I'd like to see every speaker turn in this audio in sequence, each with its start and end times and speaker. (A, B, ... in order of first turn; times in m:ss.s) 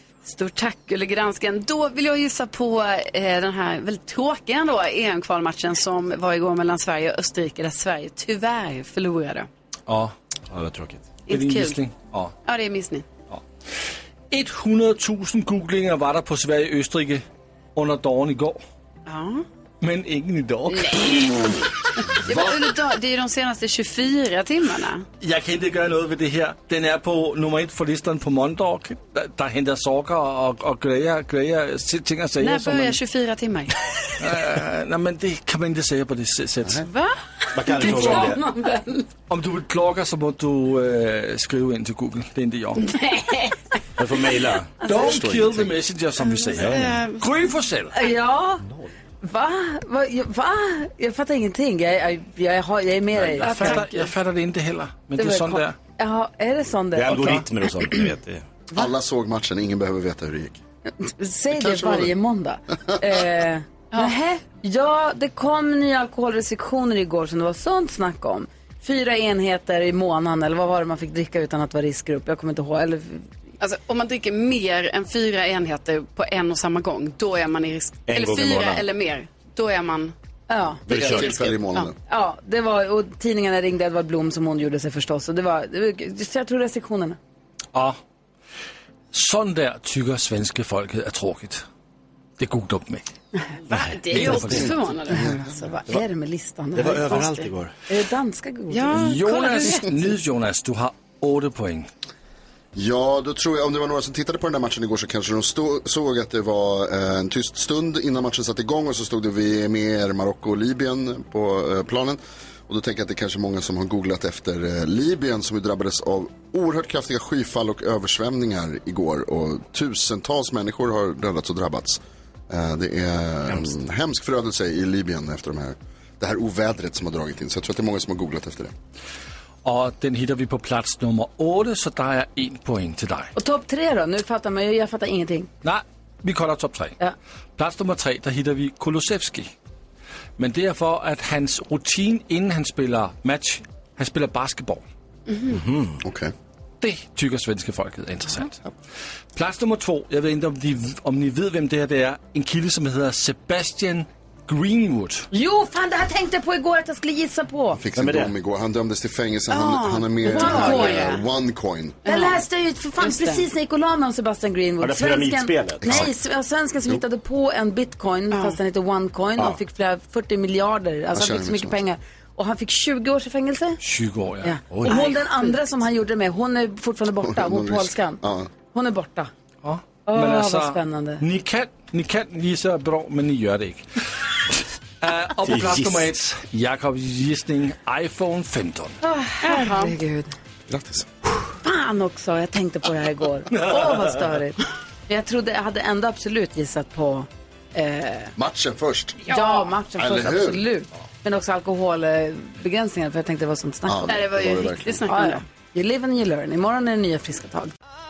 0:00.2-0:09.5 A
0:09.9-0:10.1 B
0:10.5-0:11.1 C
0:11.3-0:11.8 A
0:11.3-0:12.3 B
0:12.4-0:13.1 A
0:14.3-0:18.6 B
0:19.1-0:19.4 A
0:19.8-0:21.2 B
0:20.7-0:21.6 A
0:22.2-0:25.1 A
0:25.2-0:33.0 B
0:32.4-0:33.7 A
0:34.2-0:36.9 B
0:36.9-0:39.1 A
0:37.5-0:38.4 C
0:39.3-0:42.8 B
0:42.9-0:43.6 A
0:44.0-0:44.8 C
0:44.8-0:48.0 B
0:45.0-0:45.7 D
0:46.3-0:47.2 A
0:48.0-0:48.6 E
0:49.2-0:54.1 E
0:53.3-0:55.8 B
0:53.5-0:53.8 A
0:55.2-0:57.4 E
0:56.9-0:58.5 C
0:58.7-1:00.6 D
1:01.0-1:13.3 E
1:01.5-1:02.1 D
1:13.6-1:20.2 A
1:18.1-1:18.8 C
1:20.5-1:21.3 E
1:20.9-1:22.0 D
1:20.9-1:21.4 C
1:20.9-1:21.9 A
1:22.1-1:27.2 E
1:29.1-1:31.6 B
1:32.4-1:33.1 B
1:33.7-1:35.5 A
1:33.7-1:34.7 C
1:34.1-1:34.8 B
1:35.1-1:38.9 E
1:36.7-1:37.7 C
1:38.7-1:39.9 A
1:38.9-1:41.9 B
1:42.8-2:08.7 D
2:09.6-2:13.3 B
2:13.4-2:15.5 E
2:15.6-2:17.0 B
2:17.6-2:19.5 B
2:20.4-2:24.8 B
2:25.3-2:25.5 A
2:25.5-2:26.0 C
2:26.0-2:26.3 D
2:26.8-2:28.6 B
2:29.3-2:35.3 B
2:35.3-2:37.8 E
2:37.8-2:42.0 D
2:38.0-2:38.3 C
2:39.5-2:41.2 A
2:40.3-2:41.2 E
2:42.1-2:42.4 A
2:42.1-2:53.8 E
2:43.0-2:43.4 A
2:44.8-2:46.1 C
2:45.8-2:46.1 D
2:48.3-2:48.6 A
2:51.1-2:51.8 D
2:53.8-2:54.6 B
2:54.4-2:59.3 E
2:54.8-2:55.6 A
2:57.2-2:58.5 D
2:59.6-3:04.0 B
3:00.1-3:01.2 E
3:05.0-3:09.0 B
3:05.4-3:06.1 C
3:09.0-3:10.4 E
3:09.4-3:09.9 A
3:10.7-3:11.1 D
3:11.6-3:18.3 E
3:18.4-3:19.3 D
3:19.3-3:19.7 A
3:19.3-3:24.3 E
3:20.0-3:20.6 D
3:23.9-3:25.1 D
3:24.1-3:25.4 A
3:25.1-3:27.7 E